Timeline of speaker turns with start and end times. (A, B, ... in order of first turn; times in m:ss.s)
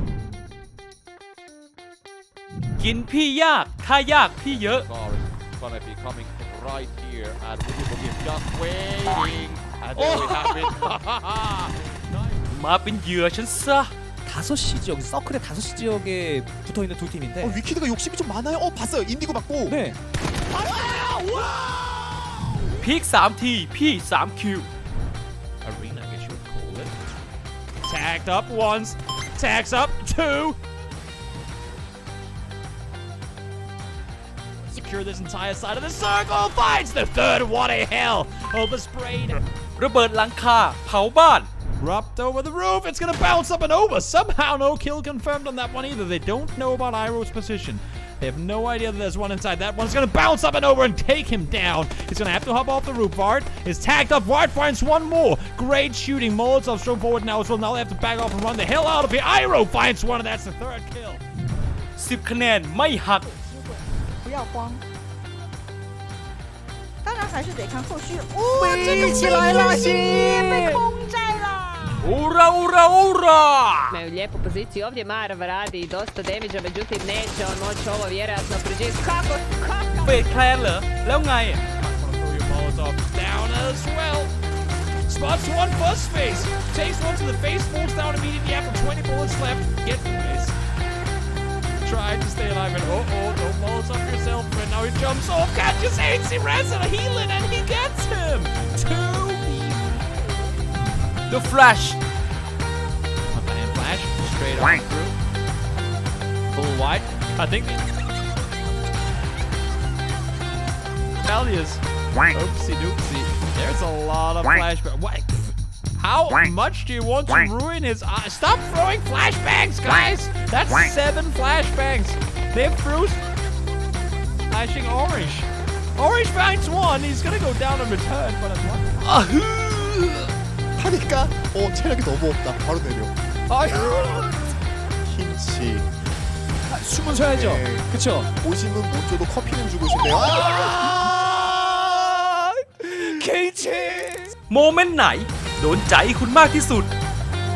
0:02.8-0:04.9 A
0:04.4-0:11.9 B
0:12.5-0:13.9 A
0:14.3-0:17.6 C
0:17.4-0:19.8 D
0:19.7-0:20.0 C
0:20.5-0:22.5 E
0:22.8-0:24.7 A
0:25.6-0:26.9 E
0:27.8-0:30.6 E
0:34.7-0:39.4 E
0:39.8-0:41.5 A
0:41.8-1:01.2 E
1:02.0-1:03.3 A
1:03.2-1:04.8 F
1:07.0-1:12.1 F
1:12.0-1:14.0 A
1:13.9-1:20.3 G
1:20.0-1:21.6 A
1:21.8-1:24.3 E
1:25.1-1:30.5 E
1:31.8-1:40.2 E
1:41.3-1:42.0 A
1:43.3-1:45.2 E
1:46.5-1:47.8 E
1:51.2-2:03.2 E
2:04.5-2:08.9 E
2:09.1-2:10.3 C
2:10.8-2:13.1 D
2:13.5-2:14.3 C
2:15.0-2:15.9 D
2:16.7-2:18.3 C
2:17.3-2:20.8 D
2:20.5-2:22.0 E
2:21.3-2:24.3 C
2:24.5-2:26.9 A